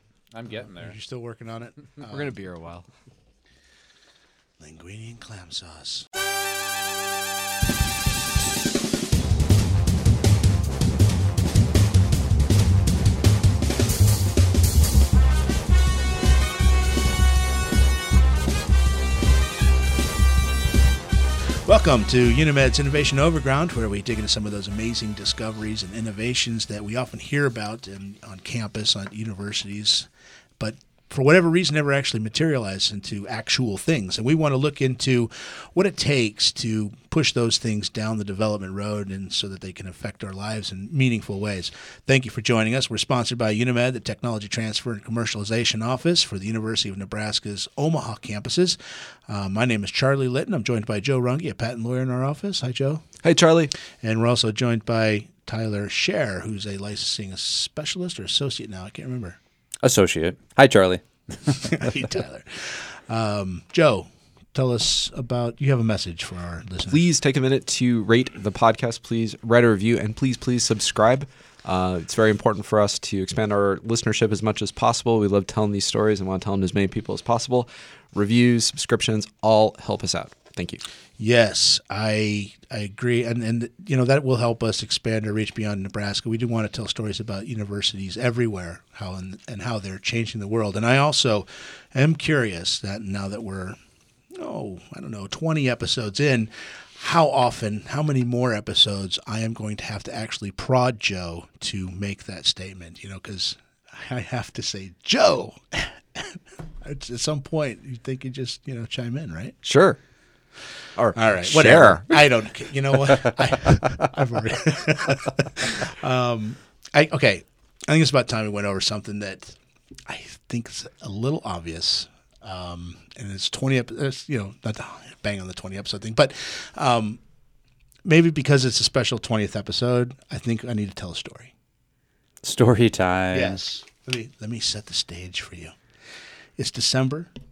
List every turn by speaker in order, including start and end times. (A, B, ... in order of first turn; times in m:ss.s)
0:00.3-0:01.0 A
0:00.5-0:02.3 B
0:02.0-0:02.9 C
0:04.6-0:06.1 B
0:21.7-0:48.8 B
0:49.3-0:53.0 B
0:53.2-0:53.7 C
0:54.0-0:59.4 B
0:59.8-1:01.9 A
1:01.6-1:07.0 B
1:06.9-1:20.8 C
1:21.2-1:33.8 B
1:34.4-1:49.6 B
1:49.6-1:50.0 C
1:51.0-1:52.2 C
1:51.2-1:59.6 B
2:00.1-2:07.2 B
2:08.1-2:11.5 B
2:12.4-2:13.6 A
2:13.3-2:15.8 B
2:16.6-2:17.3 B